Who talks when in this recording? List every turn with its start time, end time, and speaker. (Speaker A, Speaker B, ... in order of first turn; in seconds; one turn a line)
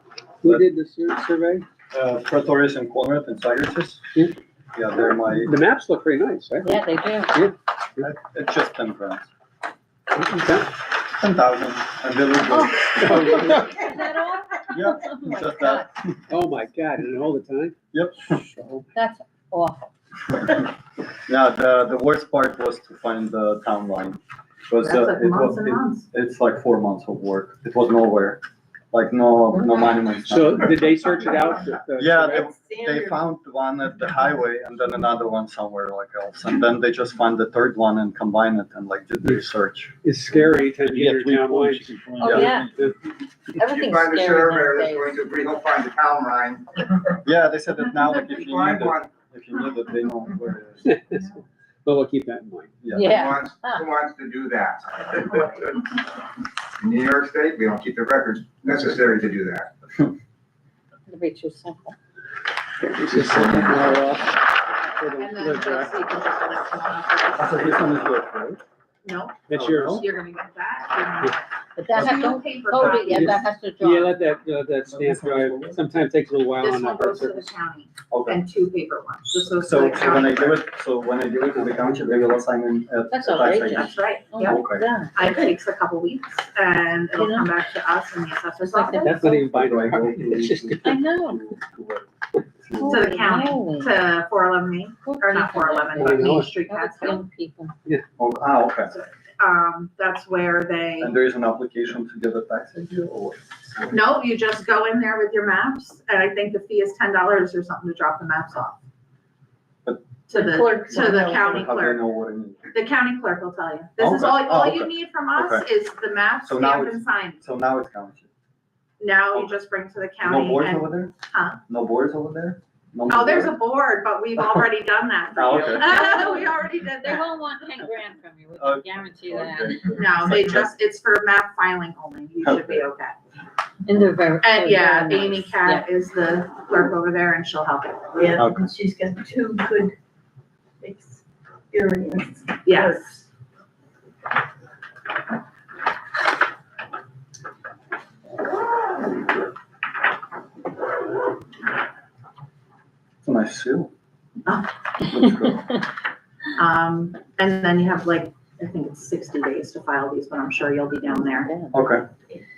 Speaker A: 0.4-1.6
Speaker B: 1.9-4.1
Speaker B: 4.7-5.5
Speaker A: 5.3-6.8
Speaker C: 6.6-7.5
Speaker B: 8.0-9.3
Speaker A: 10.1-10.7
Speaker B: 11.1-13.7
Speaker C: 12.5-15.9
Speaker A: 13.0-13.8
Speaker B: 14.7-16.1
Speaker A: 16.3-17.7
Speaker B: 17.9-18.8
Speaker C: 18.9-19.9
Speaker B: 21.3-30.8
Speaker D: 24.8-26.1
Speaker A: 30.3-32.5
Speaker B: 31.9-39.9
Speaker E: 32.5-33.2
Speaker A: 40.0-42.6
Speaker B: 40.9-42.9
Speaker C: 42.2-42.8
Speaker C: 43.6-45.1
Speaker F: 43.7-46.9
Speaker B: 47.2-50.9
Speaker F: 48.1-49.1
Speaker A: 50.8-51.3
Speaker A: 51.8-52.7
Speaker B: 52.8-53.2
Speaker C: 52.9-53.8
Speaker F: 53.1-55.8
Speaker D: 55.1-55.6
Speaker F: 56.8-59.7
Speaker C: 61.1-62.0
Speaker A: 62.9-66.0
Speaker B: 63.1-63.7
Speaker D: 65.2-68.0
Speaker B: 67.4-68.6
Speaker D: 69.0-73.5
Speaker A: 69.5-70.0
Speaker B: 69.5-70.0
Speaker C: 71.8-74.2
Speaker A: 72.7-77.5
Speaker B: 74.8-75.8
Speaker D: 76.6-80.6
Speaker B: 78.1-78.4
Speaker B: 79.6-84.8
Speaker A: 81.7-82.0
Speaker C: 83.1-85.2
Speaker D: 83.6-84.6
Speaker D: 85.1-89.3
Speaker C: 87.2-87.6
Speaker C: 88.6-89.2
Speaker A: 89.0-91.0
Speaker B: 89.3-93.1
Speaker C: 90.8-91.4
Speaker C: 92.7-94.0
Speaker D: 92.9-97.2
Speaker C: 95.0-97.7
Speaker A: 96.0-96.5
Speaker B: 98.2-98.9
Speaker D: 98.9-101.2
Speaker B: 101.0-104.0
Speaker D: 103.9-108.8
Speaker D: 110.3-112.0
Speaker C: 110.3-111.7
Speaker B: 110.9-112.7
Speaker D: 112.7-117.4
Speaker B: 114.0-115.7
Speaker B: 116.4-118.3
Speaker D: 119.0-121.6
Speaker B: 120.2-121.1
Speaker B: 121.7-123.6
Speaker D: 123.1-127.4
Speaker B: 125.3-126.0
Speaker C: 125.7-129.9
Speaker B: 128.6-130.7
Speaker D: 129.9-133.2
Speaker B: 132.4-132.8
Speaker C: 133.8-135.8
Speaker D: 134.4-138.1
Speaker E: 138.1-139.9
Speaker B: 138.3-138.7
Speaker E: 140.8-141.2
Speaker E: 141.7-143.2
Speaker D: 142.7-143.0
Speaker B: 153.2-153.9
Speaker B: 155.1-155.7
Speaker D: 156.6-161.5
Speaker C: 161.2-161.8
Speaker B: 161.7-162.1